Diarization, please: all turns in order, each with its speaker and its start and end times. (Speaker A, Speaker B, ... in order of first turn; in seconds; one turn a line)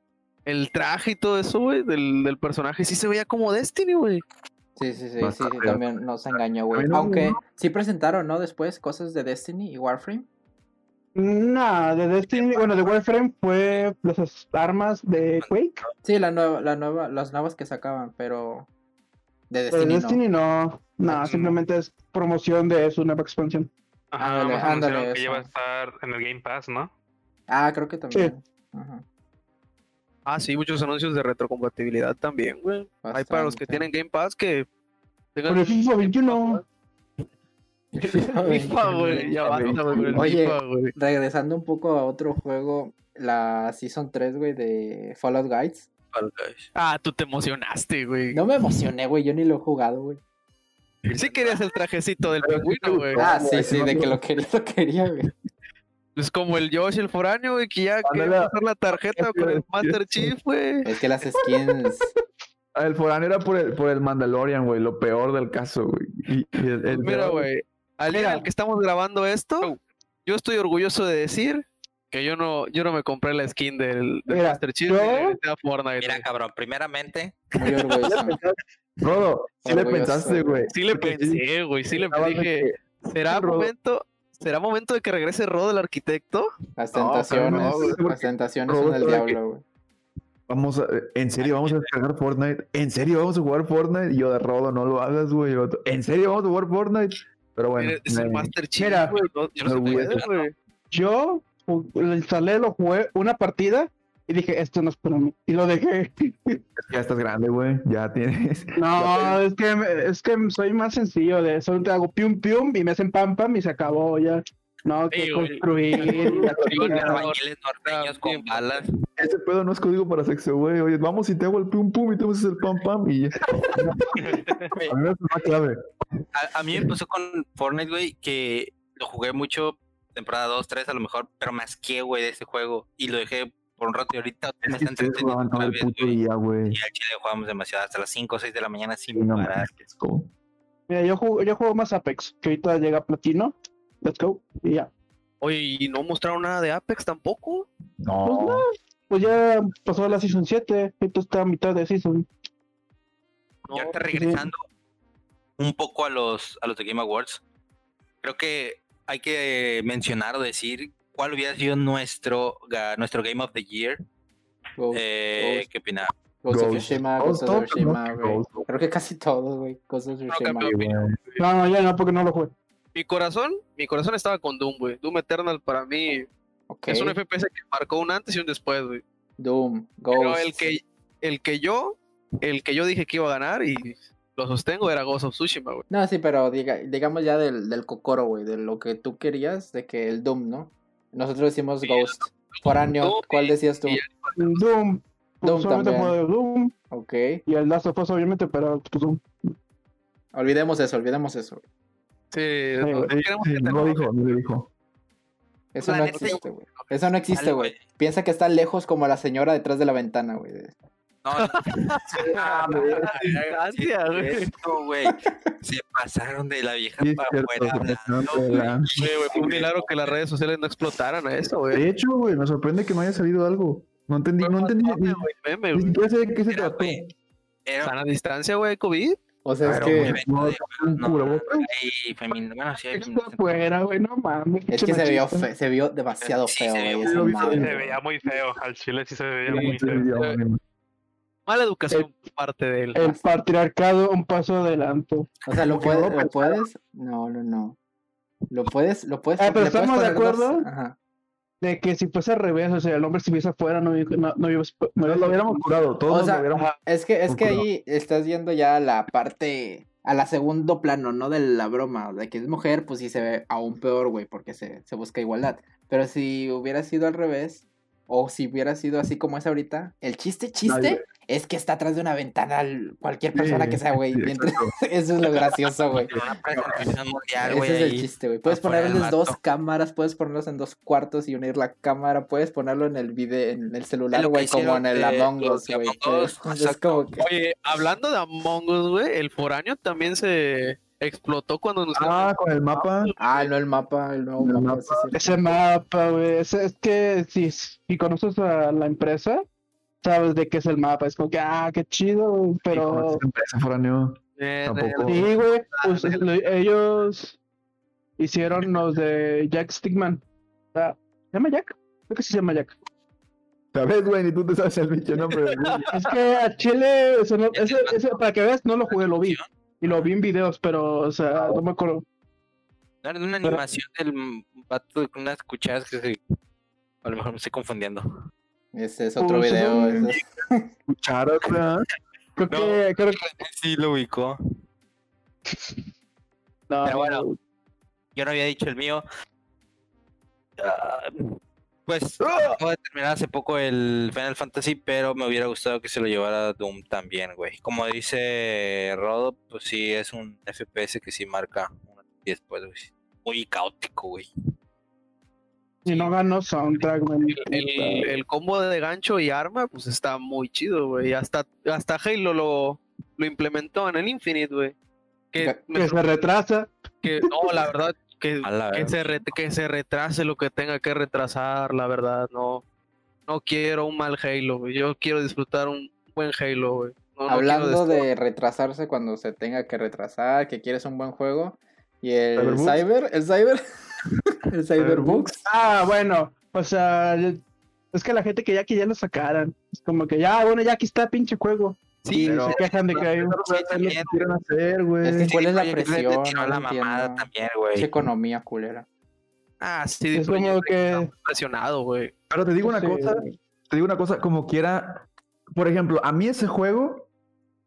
Speaker A: 0.5-4.2
Speaker B: 4.8-10.3
Speaker C: 5.2-7.4
Speaker D: 11.2-15.8
Speaker E: 12.3-13.0
Speaker E: 15.4-15.9
Speaker B: 16.0-18.7
Speaker B: 19.5-20.2
Speaker D: 19.7-23.7
Speaker B: 21.1-21.5
Speaker F: 24.1-26.9
Speaker B: 24.2-25.5
Speaker B: 27.5-29.0
Speaker A: 30.3-34.7
Speaker B: 33.0-33.9
Speaker A: 35.4-36.6
Speaker D: 35.5-36.6
Speaker B: 38.0-39.4
Speaker A: 38.0-40.9
Speaker C: 39.4-40.3
Speaker B: 40.1-45.9
Speaker E: 46.1-46.7
Speaker A: 46.8-48.4
Speaker B: 48.3-50.2
Speaker E: 51.0-51.7
Speaker A: 51.1-53.3
Speaker C: 52.4-54.2
Speaker B: 53.2-55.3
Speaker A: 56.2-60.9
Speaker C: 58.0-60.4
Speaker B: 60.8-62.1
Speaker C: 62.8-67.5
Speaker A: 66.9-76.3
Speaker D: 68.1-68.5
Speaker D: 74.3-75.4
Speaker E: 76.0-77.5
Speaker B: 77.5-78.4
Speaker A: 77.7-78.0
Speaker C: 78.1-83.7
Speaker B: 79.6-80.7
Speaker A: 80.7-88.0
Speaker B: 86.8-89.6
Speaker C: 87.3-89.4
Speaker C: 90.5-98.5
Speaker E: 91.4-91.9
Speaker A: 97.8-100.5
Speaker D: 98.8-99.2
Speaker E: 99.6-100.5
Speaker C: 99.7-100.2
Speaker D: 100.9-106.6
Speaker C: 106.8-109.4
Speaker D: 108.8-117.2
Speaker A: 115.1-118.7
Speaker C: 116.0-117.2
Speaker E: 116.8-118.9
Speaker C: 119.2-124.3
Speaker F: 124.3-124.7
Speaker C: 124.9-125.8
Speaker E: 126.3-136.2
Speaker C: 134.6-136.8
Speaker E: 136.7-139.7
Speaker C: 139.1-140.3
Speaker D: 140.9-144.9
Speaker A: 145.4-147.7
Speaker C: 148.0-148.7
Speaker D: 148.2-152.3
Speaker A: 153.7-154.0
Speaker E: 153.7-154.6
Speaker D: 154.1-154.4
Speaker E: 155.6-157.4
Speaker E: 158.2-164.0
Speaker B: 164.8-165.7
Speaker E: 164.9-166.1
Speaker B: 166.4-170.7
Speaker C: 166.5-168.7
Speaker A: 170.3-171.4
Speaker C: 170.6-171.2
Speaker D: 171.4-172.5
Speaker A: 172.9-176.3
Speaker B: 176.7-177.2
Speaker A: 176.9-179.0
Speaker B: 179.4-180.7
Speaker A: 180.1-185.8
Speaker B: 185.9-194.0
Speaker A: 191.8-194.6
Speaker D: 194.4-196.7
Speaker B: 195.4-196.2
Speaker B: 196.9-197.4
Speaker D: 197.5-199.5
Speaker B: 200.3-201.6
Speaker A: 202.3-204.1
Speaker D: 202.8-203.1
Speaker C: 203.1-204.7
Speaker B: 205.7-210.7
Speaker A: 205.8-206.4
Speaker E: 207.3-207.8
Speaker E: 211.2-220.2
Speaker A: 211.3-214.6
Speaker C: 212.2-213.2
Speaker C: 217.0-218.9
Speaker A: 218.5-221.8
Speaker C: 221.7-227.1
Speaker A: 224.4-226.0
Speaker E: 226.5-227.0
Speaker E: 227.7-228.0
Speaker A: 227.8-229.2
Speaker B: 229.4-230.2
Speaker C: 229.6-231.7
Speaker E: 229.9-233.6
Speaker D: 232.9-235.5
Speaker B: 234.7-237.9
Speaker E: 236.4-237.2
Speaker C: 237.0-238.0
Speaker F: 237.3-240.1
Speaker C: 239.5-240.6
Speaker A: 239.5-240.4
Speaker A: 241.5-243.0
Speaker D: 242.9-245.3
Speaker B: 245.5-247.8
Speaker C: 245.6-246.6
Speaker B: 248.5-251.0
Speaker D: 249.4-250.7
Speaker D: 251.6-255.8
Speaker C: 255.0-257.7
Speaker B: 256.1-276.1
Speaker C: 270.7-271.0
Speaker C: 273.3-274.8
Speaker C: 276.1-276.9
Speaker E: 276.1-279.4
Speaker B: 277.4-287.3
Speaker E: 284.1-287.0
Speaker A: 287.2-293.5
Speaker C: 291.9-293.1
Speaker B: 293.2-295.3
Speaker C: 294.4-295.1
Speaker D: 295.1-299.4
Speaker D: 300.0-303.2
Speaker C: 302.7-305.3
Speaker A: 304.4-306.2
Speaker D: 305.1-307.4
Speaker D: 308.2-310.2
Speaker D: 310.7-312.8
Speaker C: 313.7-316.0
Speaker D: 315.9-322.0
Speaker E: 317.5-318.2
Speaker E: 318.9-320.1
Speaker E: 323.0-326.2
Speaker E: 327.0-328.1
Speaker B: 328.7-330.7
Speaker D: 329.2-330.1
Speaker C: 330.9-331.9
Speaker D: 332.4-333.2
Speaker E: 332.5-334.4
Speaker D: 335.5-335.8
Speaker D: 336.7-337.4
Speaker E: 336.8-337.3
Speaker E: 338.1-339.0
Speaker E: 340.6-341.2
Speaker E: 341.9-354.3
Speaker D: 342.3-342.6
Speaker E: 355.9-356.1
Speaker D: 355.9-358.2
Speaker A: 357.3-364.8
Speaker A: 365.3-366.0
Speaker D: 365.7-367.7
Speaker A: 367.0-372.6
Speaker E: 368.4-369.3
Speaker A: 373.3-378.0
Speaker B: 377.3-383.6
Speaker C: 382.4-382.8
Speaker B: 384.5-385.4
Speaker C: 384.8-385.4
Speaker D: 385.5-387.4
Speaker D: 387.9-393.4
Speaker A: 392.0-392.9
Speaker C: 392.1-395.3
Speaker E: 392.6-394.2
Speaker B: 395.0-398.9
Speaker E: 395.3-397.9
Speaker A: 399.6-402.1
Speaker D: 400.1-401.1
Speaker C: 402.3-407.1
Speaker D: 402.6-403.3